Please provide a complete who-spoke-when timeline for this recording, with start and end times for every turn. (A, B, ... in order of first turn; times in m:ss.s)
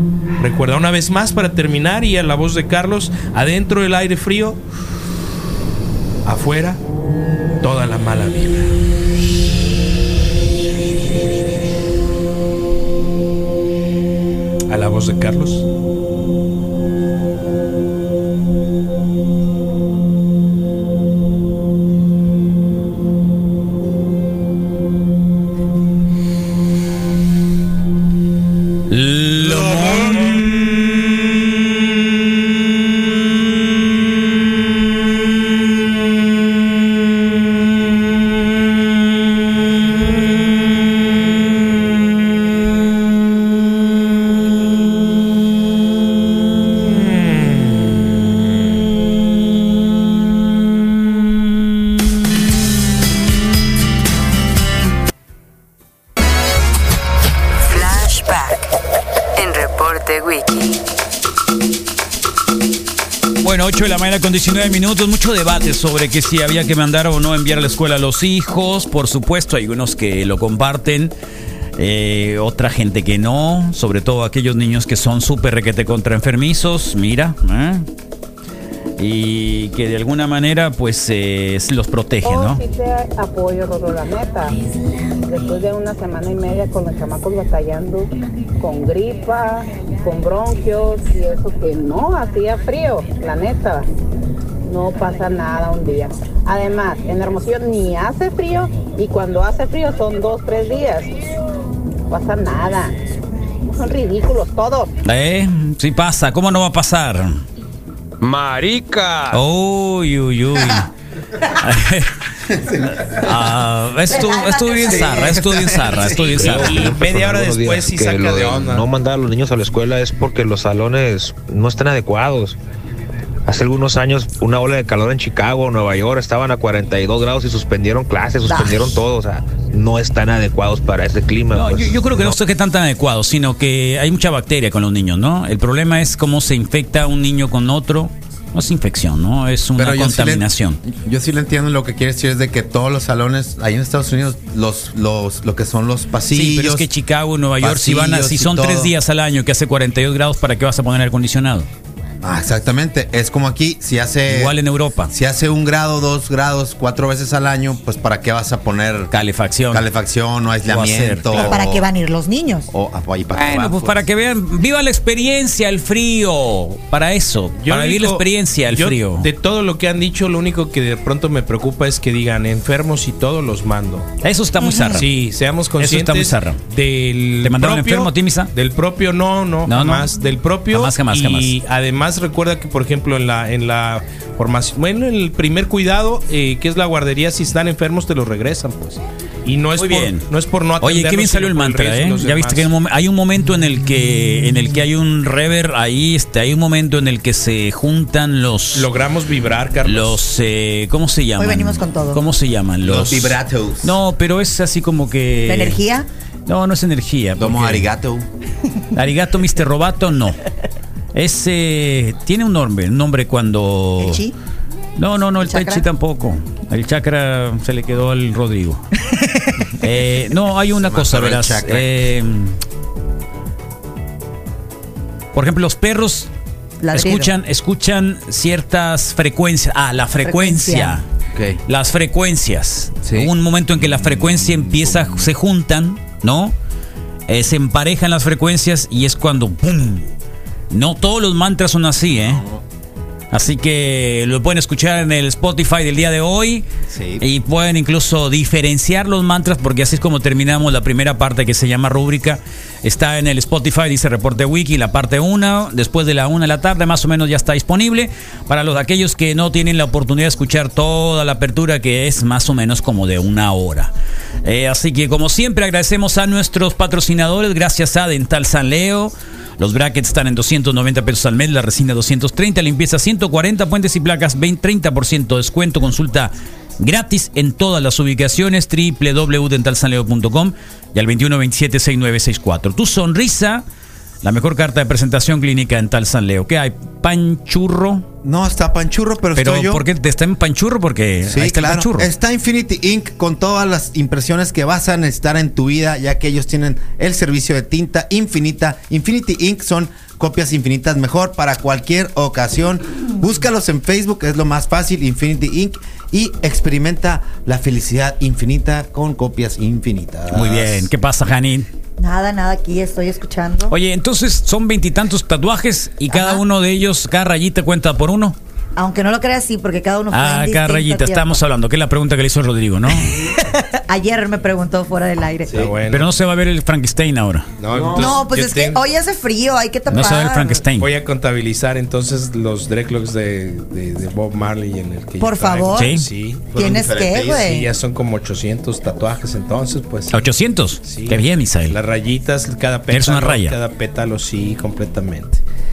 0:00.4-0:04.6 A
0:06.2-0:06.8 A
0:07.6-0:08.7 A
0:14.7-0:15.7 A
0:28.9-0:30.5 B
0:57.6-0:58.7 C
0:59.4-1:00.8 C
1:03.4-1:11.1 B
1:11.8-1:17.9 B
1:19.0-1:22.6 B
1:22.2-1:24.5 D
1:25.2-1:33.9 D
1:34.7-1:41.2 D
1:42.1-1:42.9 D
1:43.6-1:44.9 D
1:45.0-1:47.4 B
1:48.5-1:49.2 E
1:49.3-1:50.9 B
1:51.5-1:52.2 B
1:53.0-1:56.9 B
1:54.1-1:55.4 F
1:55.1-1:56.1 G
1:56.4-2:02.6 E
1:56.4-1:58.8 A
2:03.4-2:12.4 E
2:08.4-2:09.0 F
2:11.5-2:20.8 B
2:19.8-2:26.9 G
2:26.3-2:31.7 B
2:27.6-2:28.9 G
2:32.2-2:34.6 G
2:34.3-2:35.1 B
2:35.1-2:39.1 G
2:39.1-2:39.8 B
2:39.7-2:41.9 G
2:40.7-2:41.6 B
2:41.4-2:42.7 F
2:42.7-2:44.1 G
2:43.3-2:49.3 B
2:47.6-2:54.1 A
2:54.2-2:55.1 B
2:54.6-2:55.0 F
2:54.9-3:12.7 A
2:55.8-2:56.6 B
2:57.4-2:58.5 B
2:59.7-3:00.1 B
3:00.7-3:01.5 B
3:09.8-3:10.3 B
3:10.8-3:18.9 B
3:18.8-3:20.2 A
3:19.8-3:25.8 B
3:21.4-3:22.2 F
3:22.8-3:24.0 G
3:25.5-3:26.1 F
3:26.5-3:27.9 B
3:27.4-3:28.3 G
3:28.9-3:30.4 B
3:31.1-3:34.2 B
3:34.0-3:34.3 F
3:35.0-3:38.8 B
3:35.4-3:35.8 F
3:39.1-3:39.6 F
3:39.8-3:42.6 B
3:40.8-3:41.9 G
3:45.4-3:46.3 B
3:46.8-3:47.3 F
3:46.9-3:51.0 B
3:50.2-3:51.0 F
3:51.7-3:56.6 B
3:53.9-3:55.3 G
3:57.3-4:00.1 B
4:00.7-4:02.4 B
4:02.1-4:02.6 G
4:03.3-4:06.6 B
4:06.9-4:07.2 G
4:07.2-4:23.9 B
4:24.4-4:43.6 B
4:44.2-4:48.1 B
4:48.2-4:49.8 G
4:49.4-4:52.1 B
4:51.3-5:10.9 G
5:10.3-5:11.7 B
5:12.0-5:13.8 F
5:13.7-5:18.4 B
5:16.1-5:16.4 F
5:18.8-5:21.4 F
5:20.1-5:23.2 B
5:23.0-5:25.6 F
5:25.5-5:25.7 G
5:25.5-5:26.1 A
5:25.9-5:27.5 B
5:27.6-5:28.8 A
5:27.7-5:28.2 G
5:28.0-5:30.6 F
5:29.9-5:30.9 B
5:30.8-5:36.5 A
5:35.2-5:35.9 F
5:35.8-5:36.0 B
5:36.5-5:37.6 G
5:36.6-5:37.7 F
5:37.3-5:40.2 A
5:40.1-5:41.8 B
5:40.8-5:45.4 A
5:42.9-5:43.6 B